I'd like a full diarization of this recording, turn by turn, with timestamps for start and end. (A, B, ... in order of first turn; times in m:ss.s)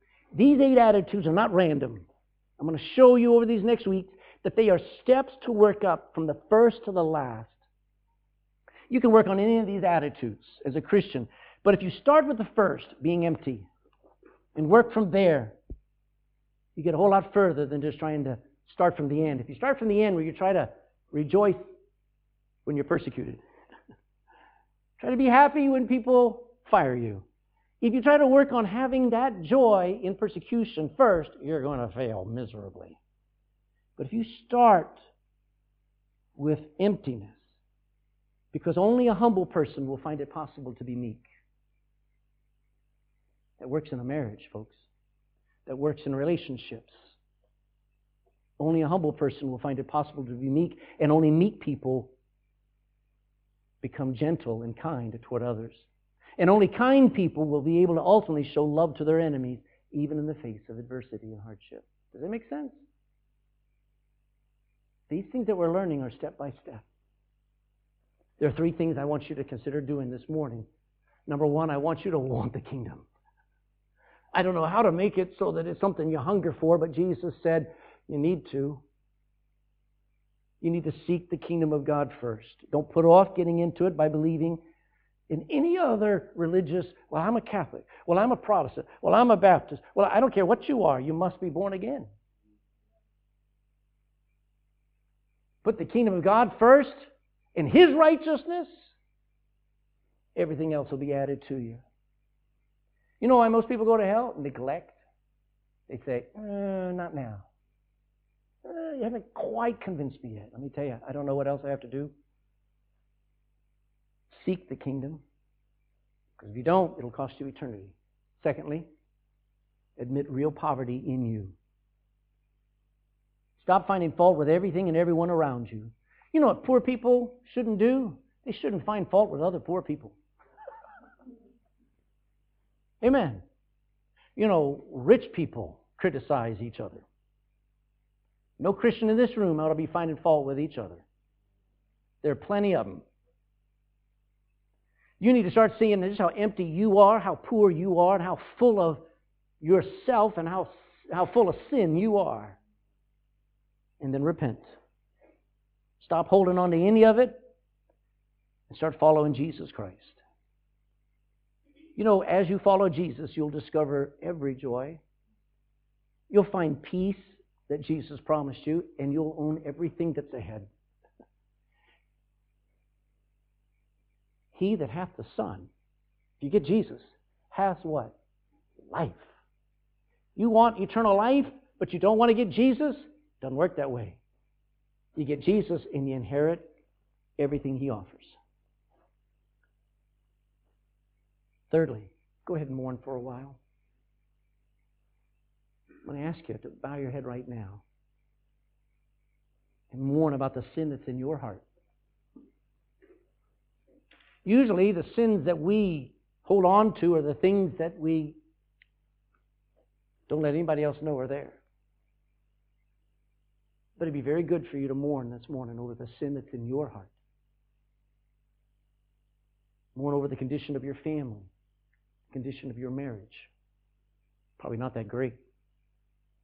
0:00.3-0:02.1 A
0:02.6-0:07.7 A
0:08.9-0:13.7 A
0:14.5-0:15.6 A
0:16.8-0:21.7 A
0:22.6-0:23.4 A
0:25.0-0:27.2 A
0:27.8-0:33.0 A
0:34.0-0:35.0 A
0:36.4-0:37.6 A
0:38.5-0:41.2 A
0:43.6-0:44.9 A
0:45.6-0:47.2 A
0:48.6-0:52.1 A
0:53.8-1:02.8 A
1:05.1-1:06.8 A
1:08.4-1:10.7 A
1:11.3-1:13.1 A
1:14.3-1:18.8 A
1:20.6-1:24.6 A
1:25.3-1:32.1 A
1:35.6-1:38.9 A
1:40.4-1:41.8 A
1:43.2-1:45.0 A
1:45.9-1:47.4 A
1:48.6-1:52.1 A
1:54.3-1:55.2 A
1:56.4-1:58.9 A
2:00.0-2:01.6 A
2:03.6-2:10.2 A
2:13.0-2:13.4 A
2:14.4-2:17.0 A
2:18.6-2:21.0 A
2:22.2-2:23.0 A
2:25.2-2:29.0 A
2:29.6-2:32.6 A
2:34.0-2:34.8 A
2:36.0-2:37.4 A
2:38.7-2:40.2 A
2:42.0-2:45.0 A
2:46.3-2:50.7 A
2:54.5-2:55.7 A
2:56.4-2:58.2 A
2:58.8-2:59.4 A
3:00.4-3:04.2 A
3:05.2-3:06.6 A
3:07.4-3:08.4 A
3:11.7-3:13.6 A
3:16.0-3:17.8 A
3:19.9-3:21.6 A
3:24.4-3:28.4 A
3:30.3-3:31.6 A
3:34.0-3:37.1 A
3:39.9-3:41.5 A
3:42.3-3:43.5 A
3:44.6-3:45.4 A